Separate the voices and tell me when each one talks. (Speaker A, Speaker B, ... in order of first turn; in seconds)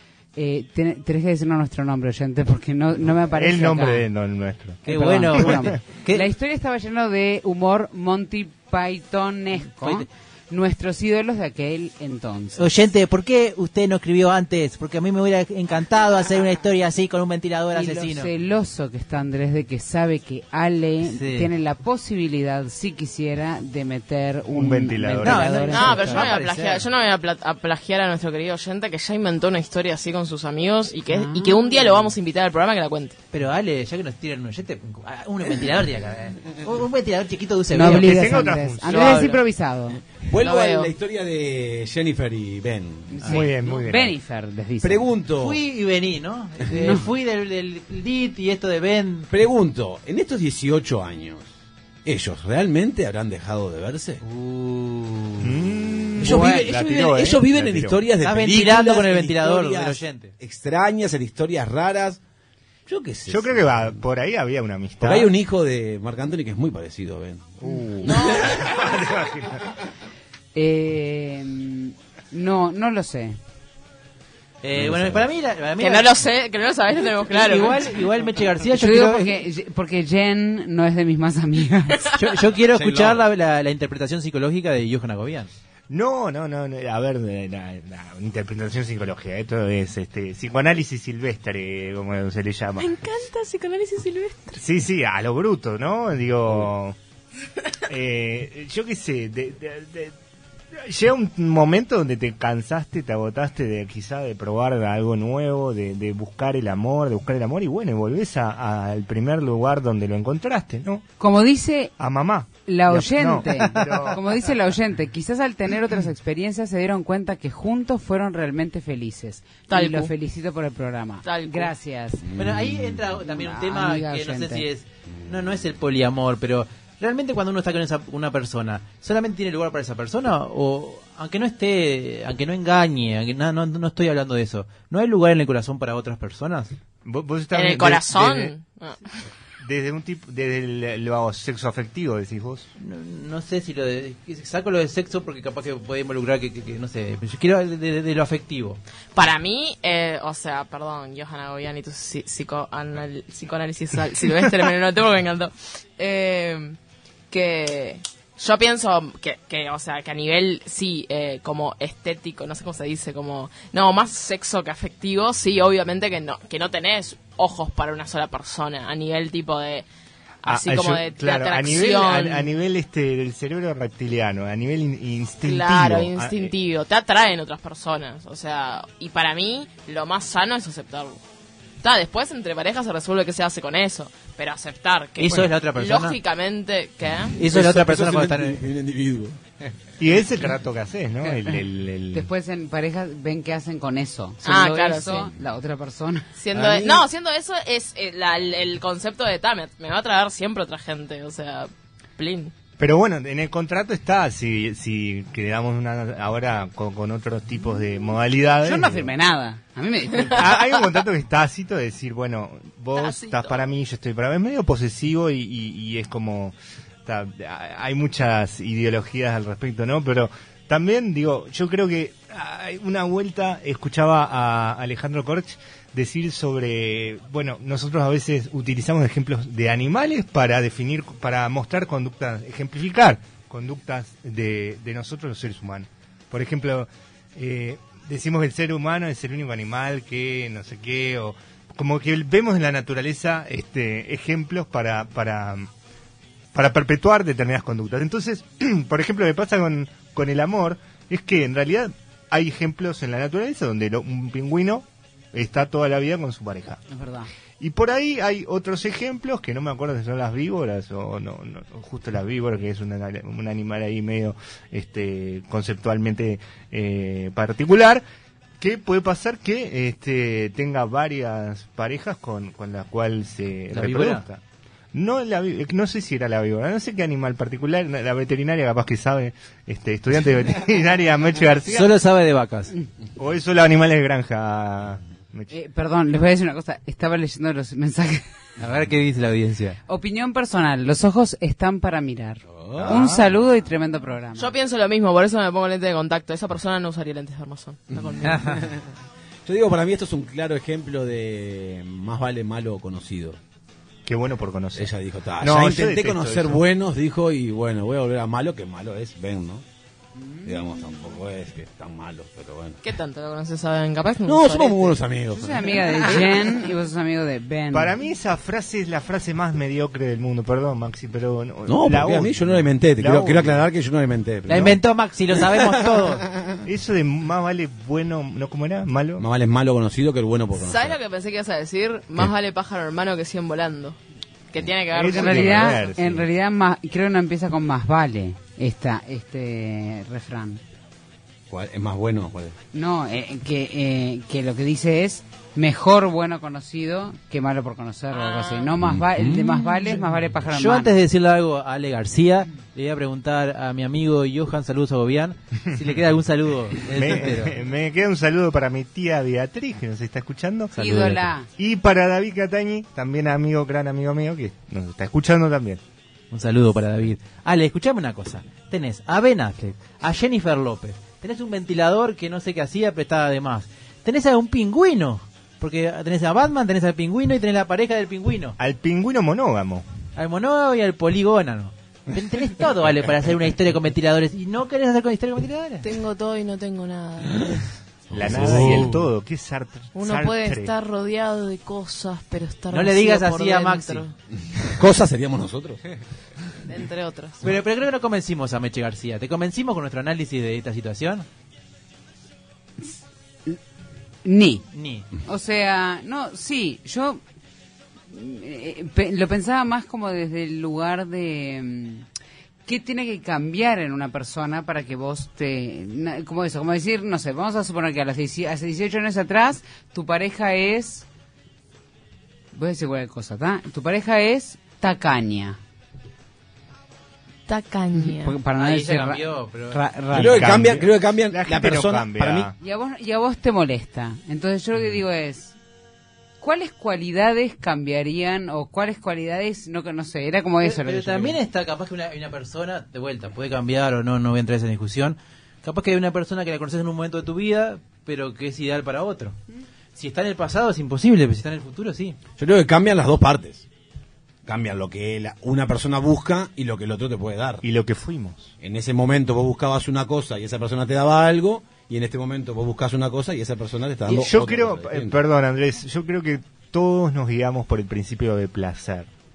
Speaker A: 0.3-4.1, 4.8-12.7, 17.7-26.3, 31.1-31.8, 37.7-40.0, 43.1-45.1, 46.7-47.0, 70.5-73.4, 78.7-82.1, 111.2-111.9, 112.7-122.3, 123.2-124.7, 191.2-191.6, 192.1-196.3, 208.6-210.5, 256.9-257.3, 285.5-288.3, 289.9-294.5, 310.1-311.1, 315.3-317.9, 335.1-340.6, 342.7-350.9, 360.7-361.5, 404.2-404.7, 405.2-407.2, 408.1-412.1, 412.6-421.1, 422.5-425.6, 427.9-430.5, 432.6-435.6, 436.4-441.4
Speaker B: 3.3-4.8, 24.5-25.6, 37.8-39.2, 43.2-44.1, 55.4-58.0, 63.3-65.3, 67.6-69.6, 85.9-92.9, 94.5-97.0, 97.9-100.2, 100.7-111.0, 112.0-114.5, 137.0-138.5, 139.6-142.7, 170.4-176.5, 190.0-192.3, 202.8-209.1, 210.2-245.7, 246.5-256.8, 257.6-268.0, 268.6-274.4, 274.9-281.9, 283.2-285.5, 292.8-293.3, 304.1-306.6, 317.7-323.6, 326.6-329.2, 334.9-336.3, 356.9-360.7, 361.6-365.8, 378.6-379.8, 388.1-390.7, 430.2-432.5, 457.6-458.5, 464.1-469.1
Speaker C: 4.9-6.2, 9.7-10.1, 12.6-18.3, 21.1-21.5, 25.2-26.9, 33.3-38.4, 45.4-49.3, 54.2-55.5, 58.2-60.3, 74.6-76.1, 77.3-79.4, 82.1-85.5, 122.3-136.7, 142.8-148.8, 185.2-186.2, 187.3-188.6, 273.7-274.2, 281.7-282.7, 288.6-289.8, 298.2-298.6, 324.5-326.3, 350.5-357.6, 360.7-361.3, 366.3-378.6, 380.1-385.9, 392.7-394.0, 397.4-401.2, 404.7-405.1, 428.5-429.8, 440.6-449.4, 449.9-452.2
Speaker D: 25.7-33.1, 38.9-39.4, 40.4-40.9, 68.1-68.5, 75.8-77.8, 92.8-94.6, 119.7-120.1, 121.2-121.7, 137.5-139.0, 149.1-156.8, 157.3-169.8, 170.4-172.5, 175.4-181.2, 181.8-187.4, 194.4-195.3, 196.4-202.5, 212.9-213.6, 294.4-298.7, 312.8-315.0, 330.6-334.0, 334.5-335.8, 348.1-348.7, 385.8-387.7, 389.9-394.1, 396.6-397.5, 427.5-428.3
Speaker E: 40.1-43.3, 44.8-45.6, 49.3-51.5, 52.0-54.2, 56.2-62.2, 62.9-64.0, 65.0-68.8, 74.7-75.3, 82.7-83.2, 122.2-123.0, 187.4-189.4, 196.5-197.1, 292.5-293.1, 297.9-298.9, 299.4-303.4, 304.8-309.6, 310.4-312.8, 314.2-316.5, 321.6-324.8, 325.5-326.6, 329.2-331.0, 341.5-342.6, 348.8-349.8, 388.1-389.1, 394.7-395.8, 430.1-432.5, 452.4-453.6, 454.4-457.6, 458.6-465.2